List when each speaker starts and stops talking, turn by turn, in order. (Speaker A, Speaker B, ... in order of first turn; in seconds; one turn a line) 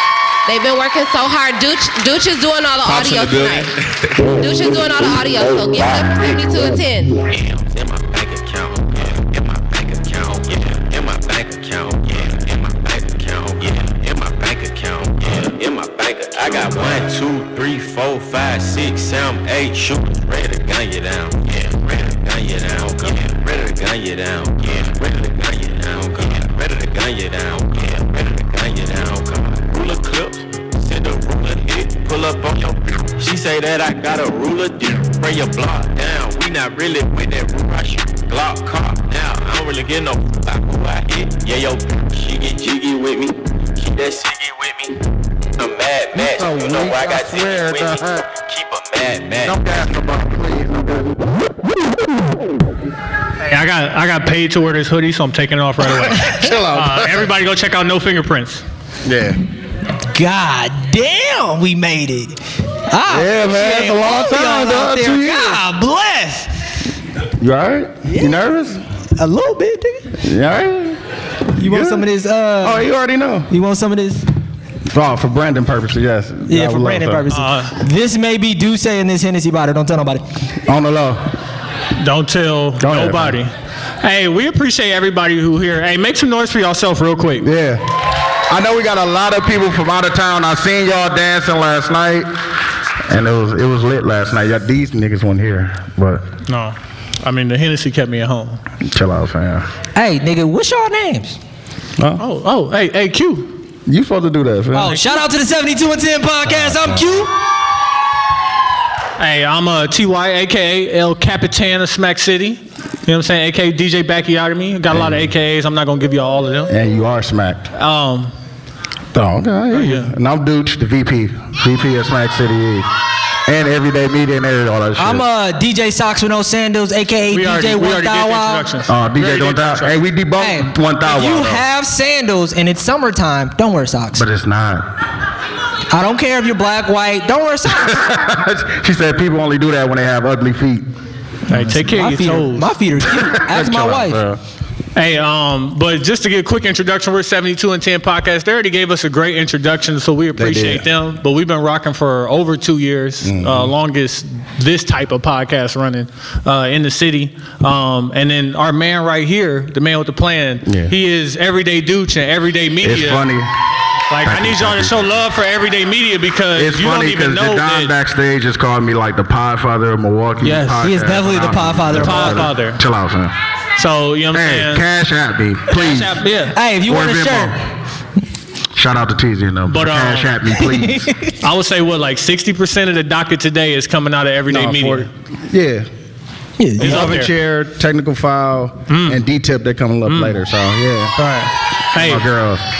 Speaker A: 0.5-3.7
Speaker B: 2.8-3.7
Speaker A: 4.2-7.2
Speaker B: 7.3-45.0
Speaker B: 45.6-49.6
Speaker C: 46.1-48.2
Speaker C: 49.4-51.2
Speaker D: 53.4-58.6
Speaker C: 56.2-57.3
Speaker C: 59.0-59.4
Speaker E: 60.1-62.4
Speaker E: 62.9-66.5
Speaker C: 63.1-65.6
Speaker C: 67.4-68.8
Speaker E: 69.2-70.1
Speaker C: 70.2-71.0
Speaker E: 71.6-72.9
Speaker C: 71.6-72.1
Speaker C: 72.6-73.5
Speaker E: 73.5-74.2
Speaker C: 74.9-77.2
Speaker E: 76.5-80.2
Speaker D: 77.3-77.8
Speaker C: 80.6-81.3
Speaker D: 82.0-87.5
Speaker C: 82.8-83.4
Speaker C: 87.4-87.8
Speaker C: 88.5-92.3
Speaker C: 93.1-96.2
Speaker D: 96.5-98.6
Speaker C: 98.8-99.7
Speaker E: 100.0-101.4
Speaker D: 102.2-103.5
Speaker C: 103.9-105.0
Speaker E: 104.7-107.3
Speaker D: 104.9-105.2
Speaker C: 106.5-107.2
Speaker D: 109.2-116.7
Speaker C: 114.9-115.3
Speaker C: 116.7-117.6
Speaker D: 117.8-118.3
Speaker C: 119.1-122.9
Speaker D: 119.7-120.1
Speaker C: 123.5-125.2
Speaker E: 125.0-128.7
Speaker D: 127.3-130.0
Speaker C: 128.9-131.6
Speaker E: 130.4-134.2
Speaker C: 134.1-135.0
Speaker E: 135.9-138.0
Speaker C: 137.7-140.9
Speaker D: 141.5-142.7
Speaker E: 141.5-144.2
Speaker C: 143.0-144.4
Speaker D: 144.9-163.3
Speaker C: 150.3-150.8
Speaker C: 153.2-153.7
Speaker C: 160.7-160.9
Speaker C: 162.8-163.5
Speaker D: 164.1-167.9
Speaker C: 164.2-165.1
Speaker C: 166.5-173.3
Speaker D: 170.4-170.8
Speaker E: 170.8-172.5
Speaker D: 171.9-172.8
Speaker D: 173.8-174.8
Speaker C: 174.3-176.2
Speaker D: 175.7-176.5
Speaker E: 176.5-177.5
Speaker C: 176.8-177.6
Speaker C: 178.7-181.1
Speaker D: 179.7-180.6
Speaker E: 180.6-181.3
Speaker D: 181.4-185.1
Speaker C: 184.5-185.9
Speaker E: 186.6-187.1
Speaker C: 186.8-191.1
Speaker D: 186.8-187.3
Speaker D: 188.9-189.2
Speaker D: 190.1-190.4
Speaker D: 191.2-192.2
Speaker C: 191.9-192.6